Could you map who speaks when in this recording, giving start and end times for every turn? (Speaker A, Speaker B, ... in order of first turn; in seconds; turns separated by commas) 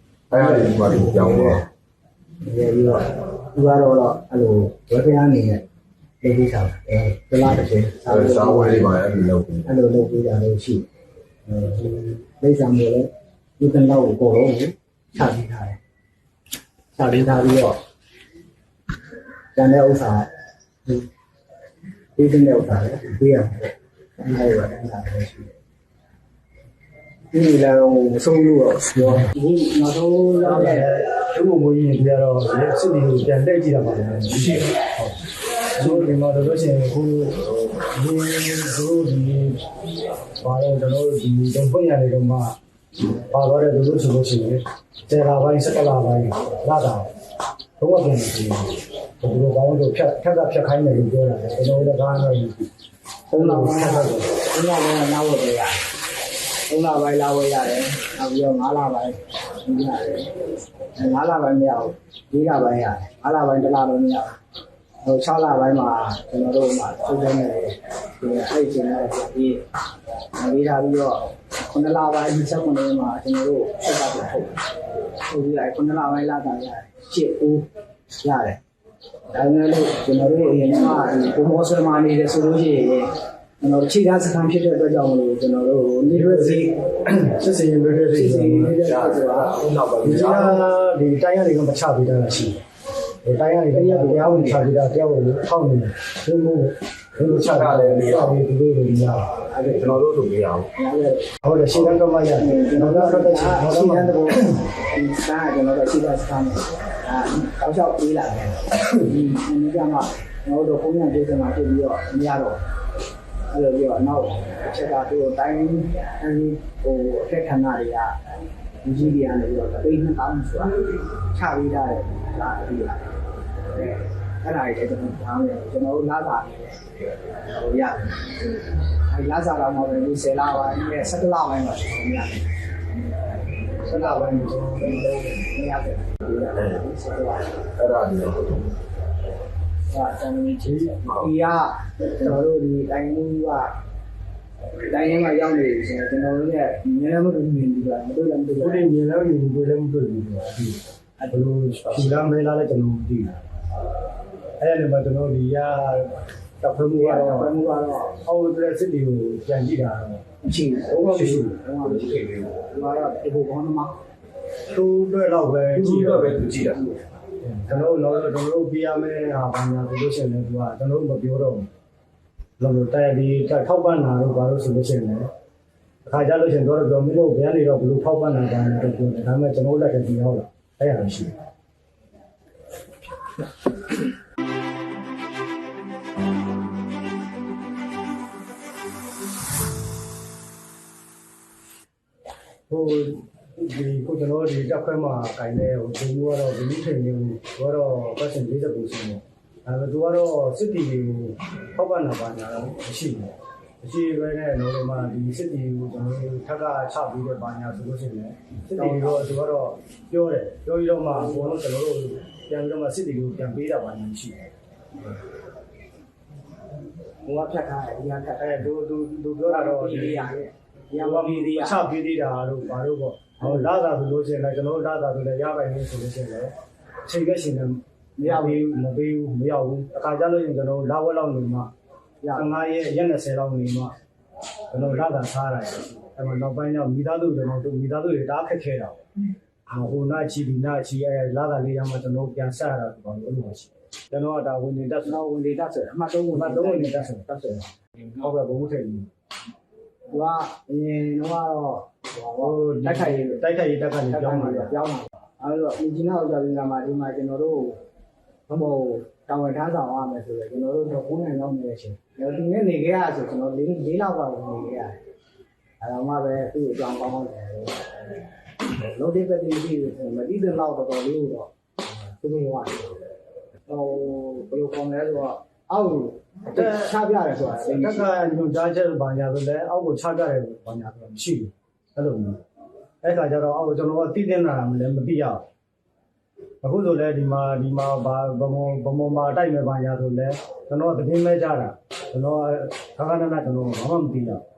Speaker A: 0.3-1.6, Speaker B: 0.3-1.6, Speaker B: 2.4-5.6, Speaker B: 6.2-9.0, Speaker A: 8.1-9.8, Speaker B: 9.7-10.9, Speaker B: 11.5-15.8, Speaker B: 17.0-17.8, Speaker B: 19.6-20.3, Speaker B: 22.2-25.5, Speaker B: 27.3-30.9, Speaker C: 30.4-35.2, Speaker A: 34.4-34.6, Speaker C: 35.8-37.4, Speaker B: 35.8-36.1, Speaker C: 37.9-39.6, Speaker C: 40.4-42.6, Speaker C: 43.3-47.1, Speaker C: 47.8-52.7, Speaker B: 53.3-55.8, Speaker C: 53.4-54.3, Speaker B: 56.7-60.3, Speaker B: 61.0-64.4, Speaker B: 65.0-69.6, Speaker B: 70.4-74.6, Speaker B: 75.3-77.7, Speaker B: 78.2-78.6, Speaker B: 79.3-86.8, Speaker C: 86.1-88.8, Speaker B: 88.1-89.6, Speaker A: 88.8-90.7, Speaker C: 90.0-92.6, Speaker C: 93.2-99.3, Speaker B: 93.7-94.7, Speaker A: 97.2-98.4, Speaker B: 99.3-100.0, Speaker A: 99.7-100.7, Speaker B: 100.8-101.3, Speaker C: 101.4-104.6, Speaker A: 101.7-102.0, Speaker B: 102.4-112.6, Speaker B: 113.5-118.2, Speaker B: 118.8-120.8, Speaker B: 121.3-123.1, Speaker B: 123.7-126.8, Speaker B: 127.5-128.2, Speaker B: 129.1-132.5, Speaker B: 133.8-137.6, Speaker C: 133.9-135.2, Speaker A: 136.6-136.8, Speaker A: 137.8-138.7, Speaker B: 139.9-143.7, Speaker C: 140.7-140.9, Speaker A: 141.1-141.3, Speaker B: 144.9-148.9, Speaker C: 148.6-150.8, Speaker B: 151.2-151.5, Speaker C: 151.3-153.4, Speaker C: 154.6-157.6, Speaker B: 156.9-158.2, Speaker C: 158.2-160.2, Speaker B: 160.4-164.0, Speaker C: 160.9-161.6, Speaker A: 161.1-162.6, Speaker C: 164.7-166.5, Speaker A: 165.8-166.9, Speaker B: 167.5-167.8, Speaker C: 167.7-171.7, Speaker C: 172.6-175.3, Speaker C: 176.1-181.3, Speaker C: 192.7-214.5, Speaker B: 208.7-209.4, Speaker B: 211.1-211.6, Speaker B: 217.3-218.7, Speaker C: 218.4-220.4, Speaker B: 219.5-221.9, Speaker C: 220.9-226.5, Speaker B: 223.4-223.7, Speaker C: 227.1-231.7, Speaker B: 228.2-228.7, Speaker B: 232.2-232.5, Speaker C: 232.3-233.9, Speaker C: 234.7-239.1, Speaker C: 239.7-245.2, Speaker B: 245.1-247.7, Speaker C: 246.3-247.3, Speaker C: 248.2-249.1, Speaker B: 250.1-253.4, Speaker C: 252.4-254.8, Speaker B: 254.1-257.8, Speaker B: 258.5-265.0, Speaker B: 265.8-268.0, Speaker B: 268.8-273.0, Speaker B: 273.7-278.1, Speaker C: 276.6-276.9, Speaker C: 277.6-282.4, Speaker C: 283.0-285.5, Speaker C: 286.6-294.4